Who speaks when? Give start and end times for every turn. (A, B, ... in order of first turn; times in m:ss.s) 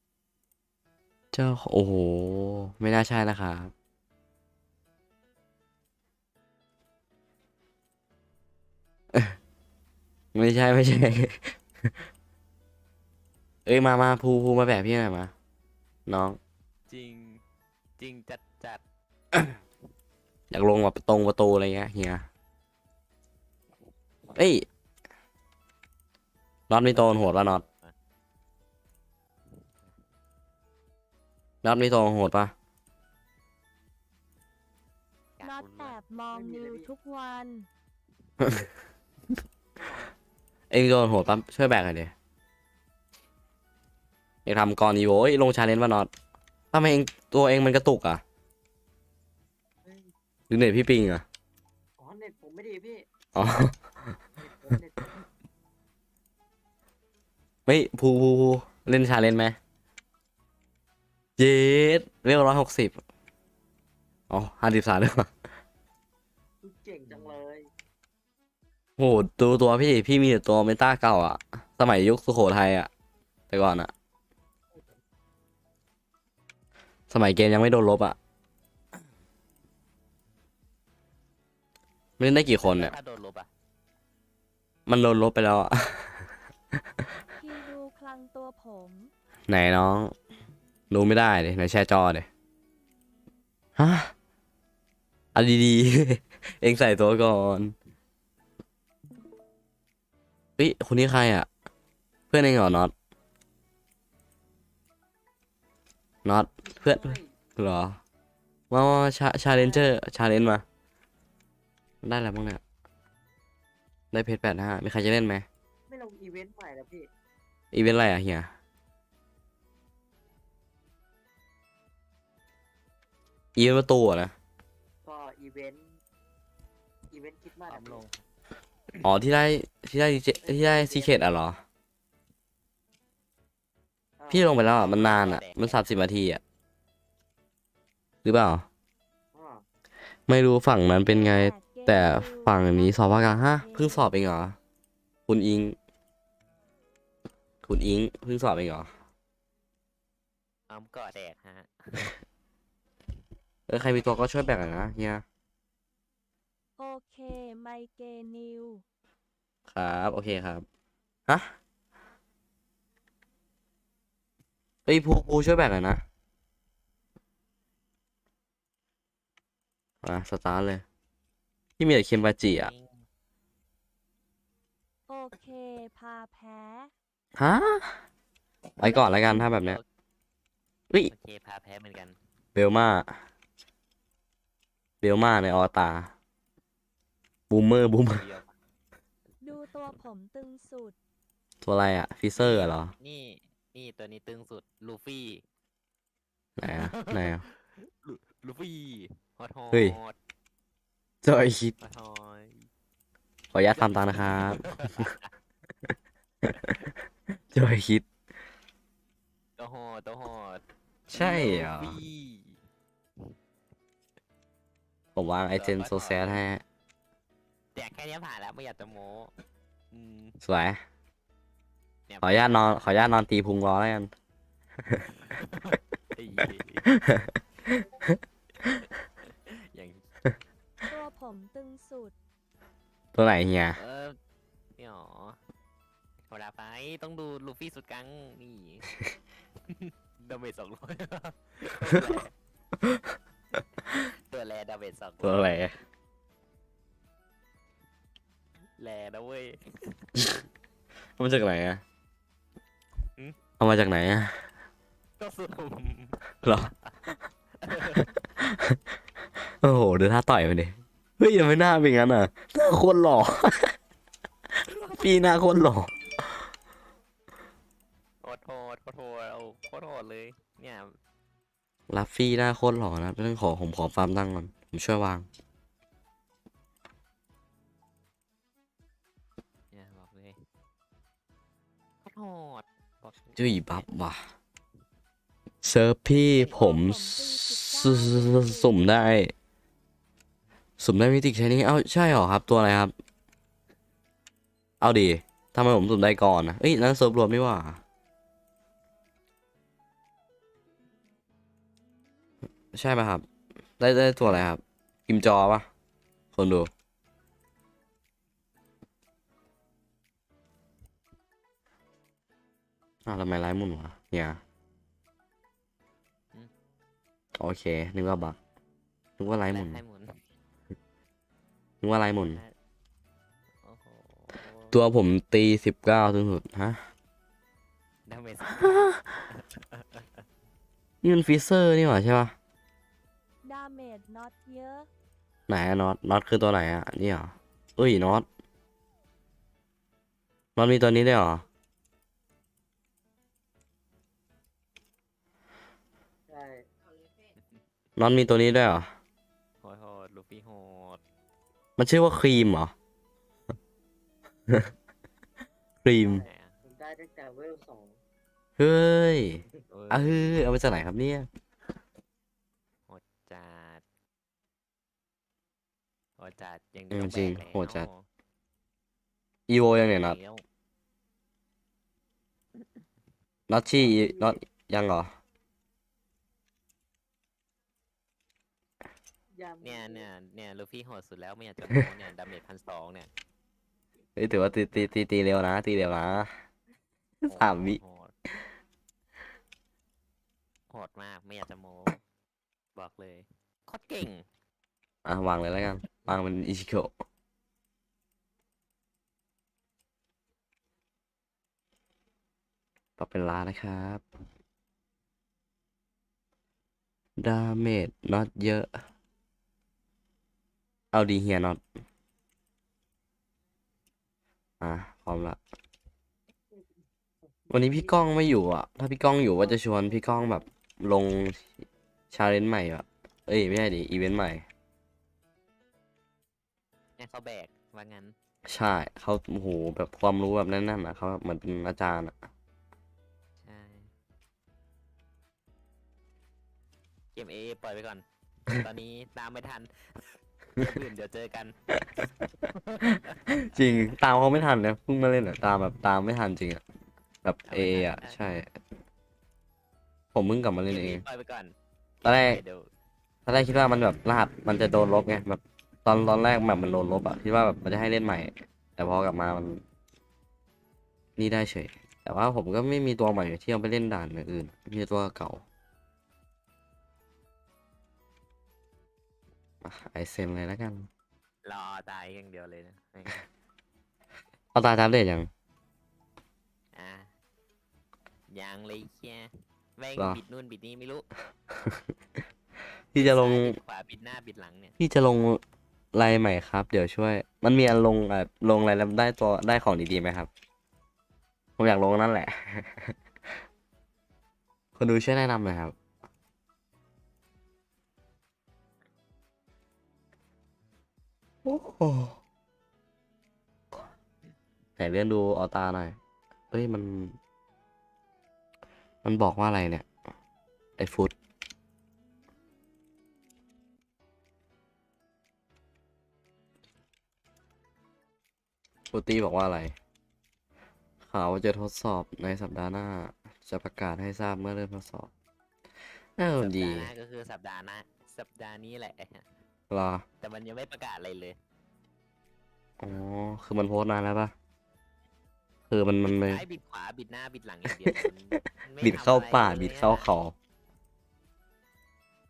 0:01.3-0:03.7 A
0:10.3-0:11.6 A
0:13.6-0:15.3 A
0:16.1-0:16.4 A
0:16.9-0:17.4 B
0:18.0-0:18.8 B
0:20.5-0:22.3 A
0:24.3-0:24.6 A
0:26.7-0:27.6 A
0:26.9-0:27.9 B
0:31.6-0:32.5 A
0:35.4-0:36.0 B
0:35.4-0:37.7 C
0:36.3-0:36.9 D
0:38.4-0:38.7 A
0:40.7-0:42.1 A
0:44.4-0:46.1 A
0:46.7-0:48.2 A
0:50.5-0:51.2 A
0:52.0-0:53.1 D
0:53.3-0:53.7 A
0:54.4-0:55.1 D
0:57.6-0:59.6 A
1:01.4-1:03.0 A
1:04.3-1:05.3 A
1:06.6-1:07.7 D
1:09.0-1:12.9 A
1:13.5-1:13.9 A
1:17.1-1:18.2 A
1:22.2-1:22.9 A
1:22.6-1:23.5 B
1:24.8-1:26.2 A
1:27.3-1:29.1 C
1:29.5-1:30.1 A
1:30.9-1:32.3 A
1:33.8-1:34.1 A
1:35.3-1:37.7 A
1:40.6-1:41.5 A
1:42.3-1:42.9 A
1:46.2-1:48.0 A
1:46.6-1:47.3 D
1:48.7-1:50.6 A
1:49.6-1:49.9 D
1:52.0-1:52.6 A
1:54.1-1:55.4 A
1:55.9-1:57.1 D
1:57.7-1:58.5 A
2:03.6-2:04.3 A
2:05.0-2:05.8 D
2:07.1-2:08.0 D
2:07.7-2:08.2 B
2:09.0-2:11.6 A
2:10.4-2:11.2 D
2:14.2-2:14.6 D
2:14.3-2:16.4 A
2:14.7-2:16.0 B
2:18.2-2:18.6 A
2:19.3-2:19.6 D
2:20.3-2:24.6 A
2:21.0-2:24.1 C
2:25.3-2:25.8 A
2:27.6-2:28.9 A
2:30.7-2:32.2 B
2:33.7-2:35.2 A
2:36.8-2:38.8 C
2:39.7-2:40.6 A
2:41.3-2:41.5 A
2:44.8-2:46.0 A
2:50.0-2:50.8 A
2:51.8-2:52.7 A
2:52.5-2:53.0 B
2:55.1-2:56.9 C
2:57.4-2:58.0 A
2:58.8-2:59.8 A
2:58.8-2:59.5 C
2:59.6-2:59.8 B
3:01.1-3:02.2 B
3:02.5-3:03.1 A
3:05.0-3:06.1 A
3:07.5-3:08.3 A
3:08.0-3:08.5 B
3:09.4-3:11.0 C
3:11.6-3:12.9 A
3:12.4-3:15.4 B
3:16.6-3:17.4 A
3:16.8-3:20.2 B
3:19.7-3:20.0 A
3:21.2-3:21.8 A
3:21.8-3:22.7 B
3:23.5-3:25.1 A
3:23.8-3:25.3 B
3:27.5-3:28.0 A
3:29.6-3:32.6 B
3:31.1-3:32.0 A
3:35.1-3:36.6 A
3:35.5-3:36.4 B
3:37.7-3:39.3 B
3:39.9-3:40.4 B
3:40.4-3:40.8 A
3:42.1-3:42.9 B
3:42.2-3:44.1 A
3:45.2-3:46.9 B
3:46.9-3:48.0 A
3:49.3-3:50.0 B
3:50.8-3:52.1 C
3:53.1-3:53.8 A
3:53.8-3:54.2 B
3:54.8-3:55.4 B
3:56.3-3:58.9 B
3:59.7-4:02.3 B
4:03.9-4:05.6 B
4:05.2-4:05.8 A
4:08.8-4:10.0 B
4:11.2-4:11.8 A
4:13.6-4:14.4 A
4:15.2-4:16.9 B
4:16.4-4:16.7 A
4:17.6-4:18.1 B
4:18.4-4:18.8 A
4:19.6-4:23.8 A
4:24.6-4:26.4 A
4:28.2-4:31.0 B
4:31.9-4:35.3 A
4:39.7-4:40.4 B
4:42.0-4:43.9 B
4:43.4-4:44.3 A
4:45.6-4:49.3 A
4:46.1-4:46.6 B
4:46.3-4:48.8 C
4:50.8-4:52.9 A
4:54.8-4:57.8 A
5:02.7-5:03.2 A
5:03.8-5:05.7 A
5:06.3-5:06.7 A
5:13.0-5:14.4 A
5:17.4-5:18.4 A
5:19.2-5:19.8 A
5:19.4-5:20.1 B
5:21.8-5:22.4 A
5:22.2-5:22.5 B
5:23.6-5:24.8 B
5:24.7-5:26.8 A
5:28.1-5:30.0 B
5:28.6-5:28.9 A
5:31.0-5:32.3 A
5:33.4-5:34.9 C
5:35.5-5:38.3 A
5:40.6-5:41.4 A
5:46.3-5:46.6 D
5:48.0-5:48.9 A
5:49.6-5:51.0 B
5:51.8-5:52.7 A
5:55.8-5:56.2 A
5:56.0-5:58.0 D
5:56.2-5:56.5 B
5:58.6-6:01.3 A
5:59.7-6:00.2 B
6:02.9-6:03.8 B
6:06.2-6:08.0 B
6:06.9-6:07.9 A
6:09.5-6:10.2 A
6:09.8-6:10.4 B
6:13.5-6:15.1 A
6:13.8-6:14.4 D
6:19.3-6:20.1 D
6:19.6-6:23.1 B
6:24.2-6:26.3 A
6:27.2-6:27.8 A
6:27.2-6:28.1 B
6:30.7-6:32.0 B
6:32.7-6:34.2 B
6:35.0-6:36.9 A
6:43.0-6:44.0 A
6:47.2-6:48.8 A
6:50.9-6:51.6 A
6:54.6-6:55.4 A
6:57.5-7:01.5 A
6:57.5-6:57.9 D
7:02.1-7:04.4 A
7:07.0-7:08.1 B
7:08.4-7:12.1 A
7:13.4-7:13.9 B
7:17.1-7:21.6 B
7:22.4-7:23.2 B
7:23.3-7:26.6 A
7:27.2-7:28.5 A
7:27.5-7:28.2 B
7:30.1-7:31.0 A
7:30.6-7:32.7 B
7:32.0-7:32.4 A
7:33.2-7:39.6 A
7:41.2-7:45.4 A
7:49.6-7:50.9 A
7:51.4-7:53.2 B
7:54.5-7:55.3 A
7:56.7-7:57.1 B
7:58.3-8:01.0 B
8:02.9-8:03.6 A
8:03.0-8:04.7 B
8:04.8-8:05.4 A
8:05.9-8:10.3 A
8:11.6-8:12.9 A
8:14.8-8:15.7 A
8:21.4-8:22.2 A
8:24.8-8:26.0 A
8:26.5-8:27.2 A
8:29.0-8:29.8 A
8:30.8-8:31.1 A
8:38.9-8:39.7 A
8:41.0-8:45.1 A
8:46.2-8:46.9 A
8:46.4-8:49.2 B
8:49.7-8:50.0 A
8:50.2-8:51.4 B
8:52.8-8:54.3 A
8:55.7-8:56.4 A
8:56.0-9:00.1 B
8:58.8-9:00.3 A